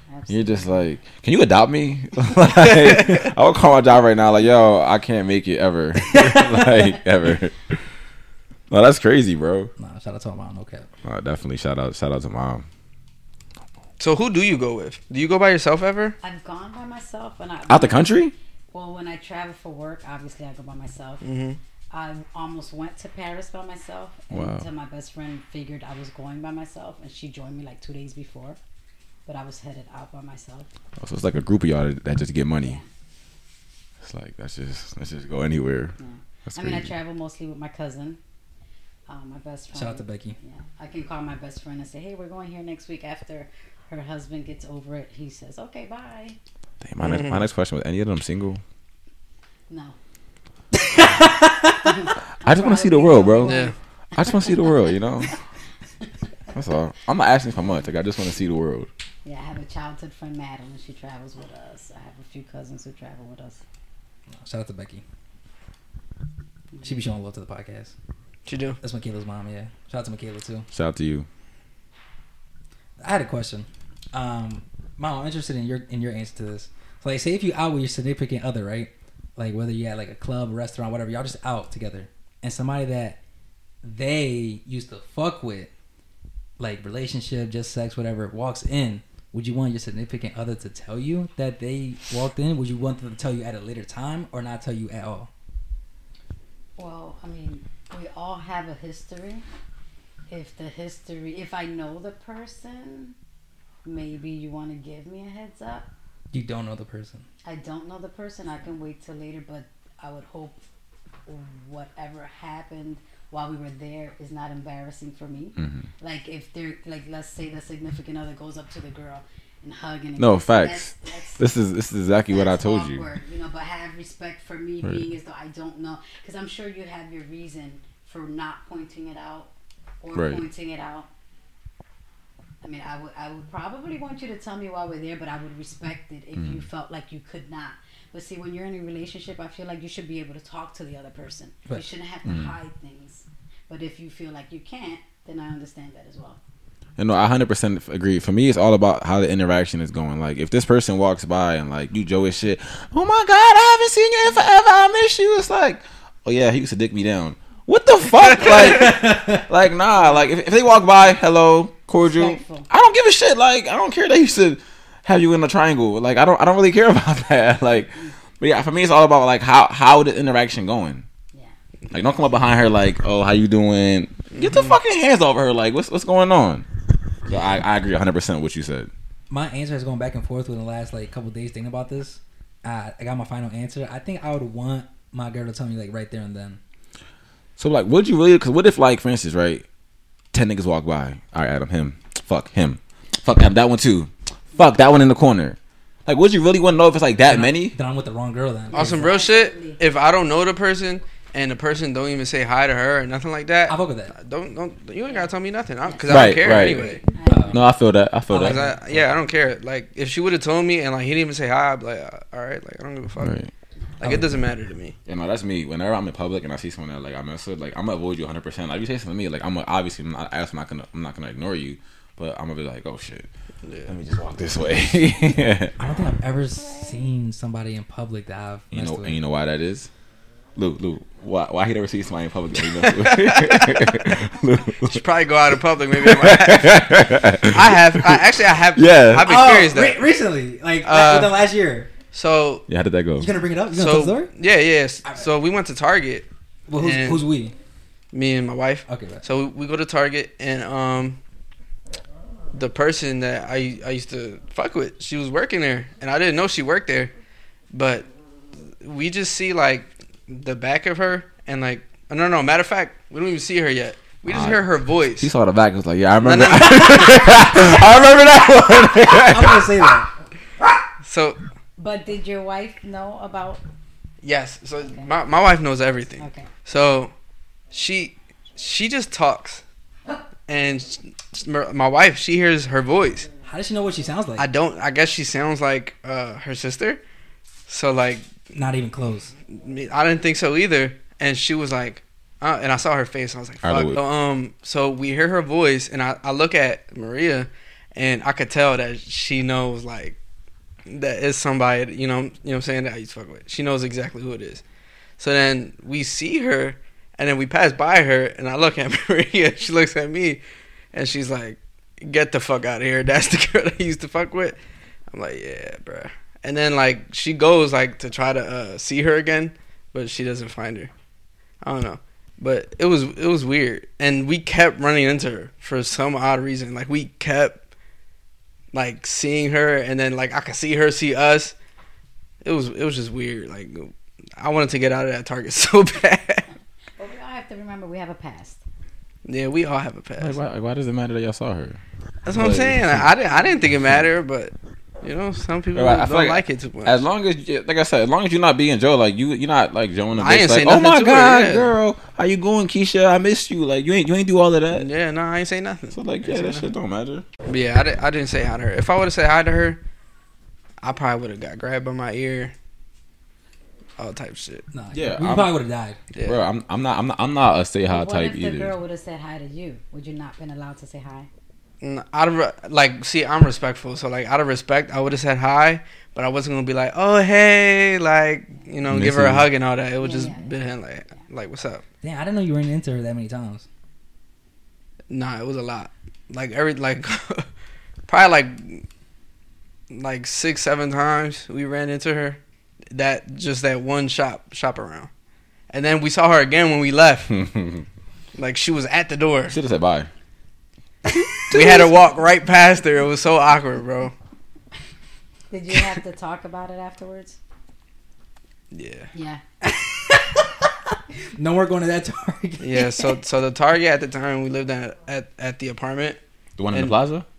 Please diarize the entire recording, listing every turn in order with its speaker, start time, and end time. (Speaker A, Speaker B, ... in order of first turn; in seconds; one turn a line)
Speaker A: 0.1-0.8
Speaker B: 0.3-7.7
Speaker B: 8.7-9.7
Speaker C: 9.8-10.9
Speaker B: 11.0-12.7
Speaker D: 14.0-16.2
Speaker A: 16.2-18.1
Speaker B: 17.7-18.3
Speaker A: 18.7-21.2
Speaker D: 21.2-21.6
Speaker A: 21.9-28.6
Speaker B: 24.3-24.6
Speaker A: 29.3-30.7
Speaker B: 31.0-32.8
Speaker A: 32.6-32.9
Speaker B: 34.0-36.0
Speaker A: 36.0-38.2
Speaker B: 36.5-36.9
Speaker A: 39.1-46.4
Speaker C: 39.7-40.4
Speaker B: 46.8-48.6
Speaker D: 47.0-47.4
Speaker A: 49.7-50.0
Speaker C: 50.9-52.0
Speaker A: 51.2-55.4
Speaker B: 52.4-55.3
Speaker D: 53.4-53.7
Speaker B: 56.5-58.9
Speaker A: 59.2-63.6
Speaker C: 64.4-65.0
Speaker A: 66.7-67.0
Speaker C: 66.8-67.9
Speaker D: 68.5-68.8
Speaker C: 68.8-70.7
Speaker B: 70.7-71.3
Speaker C: 73.0-83.2
Speaker C: 83.8-85.7
Speaker C: 86.6-95.3
Speaker A: 96.8-99.5
Speaker A: 100.3-103.2
Speaker A: 103.8-105.9
Speaker C: 106.3-107.2
Speaker A: 107.4-110.6
Speaker A: 111.3-121.5
Speaker B: 115.6-115.9
Speaker B: 120.2-123.0
Speaker A: 122.3-131.1
Speaker B: 130.1-130.4
Speaker A: 132.6-146.4
Speaker B: 136.4-136.6
Speaker B: 142.3-142.5
Speaker B: 147.0-171.1
Speaker C: 158.8-159.4
Speaker A: 160.0-160.3
Speaker A: 162.0-162.7
Speaker B: 171.9-176.7
Speaker D: 174.3-174.6
Speaker B: 177.3-178.9
Speaker C: 179.3-186.6
Speaker B: 187.6-189.7
Speaker B: 190.3-197.8
Speaker C: 197.3-199.1
Speaker A: 198.7-199.8
Speaker D: 198.7-207.0
Speaker C: 203.7-204.1
Speaker A: 205.1-205.3
Speaker A: 205.8-207.8
Speaker B: 206.1-206.9
Speaker C: 207.3-207.6
Speaker B: 207.5-208.7
Speaker C: 208.3-208.8
Speaker D: 208.3-213.4
Speaker B: 213.2-213.5
Speaker D: 214.0-215.0
Speaker C: 214.0-214.3
Speaker B: 215.1-223.3
Speaker D: 223.7-223.9
Speaker B: 223.9-225.7
Speaker C: 225.8-229.2
Speaker B: 228.7-229.9
Speaker B: 230.6-235.0
Speaker D: 232.8-234.1
Speaker D: 234.8-240.1
Speaker B: 235.9-239.3
Speaker C: 239.2-241.9
Speaker D: 240.8-241.4
Speaker D: 242.1-242.7
Speaker B: 242.7-243.3
Speaker C: 243.2-244.3
Speaker D: 243.7-246.3
Speaker C: 246.7-247.5
Speaker D: 246.8-247.3
Speaker D: 248.1-251.2
Speaker C: 248.9-249.2
Speaker D: 252.5-257.1
Speaker D: 257.7-258.1
Speaker D: 258.8-265.3
Speaker B: 264.3-269.7
Speaker D: 266.2-267.3
Speaker C: 269.2-270.1
Speaker D: 271.0-271.4
Speaker A: 271.8-273.6
Speaker D: 274.2-277.1
Speaker A: 276.2-276.5
Speaker D: 277.7-279.6
Speaker D: 280.5-283.3
Speaker C: 283.4-284.5
Speaker D: 284.4-287.0
Speaker D: 287.7-288.3
Speaker C: 288.5-289.3
Speaker D: 289.5-300.2
Speaker B: 293.6-294.0
Speaker D: 300.9-304.6
Speaker D: 305.2-310.4
Speaker D: 310.9-314.6
Speaker D: 315.1-320.9
Speaker D: 321.6-327.6
Speaker D: 328.7-331.6
Speaker D: 332.4-336.5
Speaker A: 337.0-338.6
Speaker D: 339.2-340.4
Speaker B: 340.2-343.1
Speaker D: 342.3-347.0
Speaker B: 345.8-354.9
Speaker D: 350.2-351.7
Speaker D: 354.7-356.6
Speaker B: 355.9-357.2
Speaker D: 357.5-359.8
Speaker D: 360.8-362.5
Speaker D: 364.0-364.6
Speaker C: 364.7-366.0
Speaker B: 364.9-365.5
Speaker D: 366.1-366.4
Speaker B: 366.2-368.7
Speaker A: 367.9-371.3
Speaker D: 371.8-381.8
Speaker B: 378.9-379.5
Speaker A: 380.0-380.5
Speaker C: 382.0-383.7
Speaker D: 385.1-387.5
Speaker D: 388.1-388.9
Speaker D: 389.9-392.4
Speaker D: 392.9-395.1
Speaker D: 395.7-397.4
Speaker B: 397.4-397.8
Speaker D: 398.4-399.6
Speaker B: 399.5-400.1
Speaker C: 401.2-401.8
Speaker D: 401.5-404.1
Speaker A: 405.5-407.4
Speaker D: 408.7-409.1
Speaker A: 409.1-409.4
Speaker C: 409.6-410.7
Speaker C: 411.4-413.1
Speaker D: 412.6-416.2
Speaker B: 416.6-417.3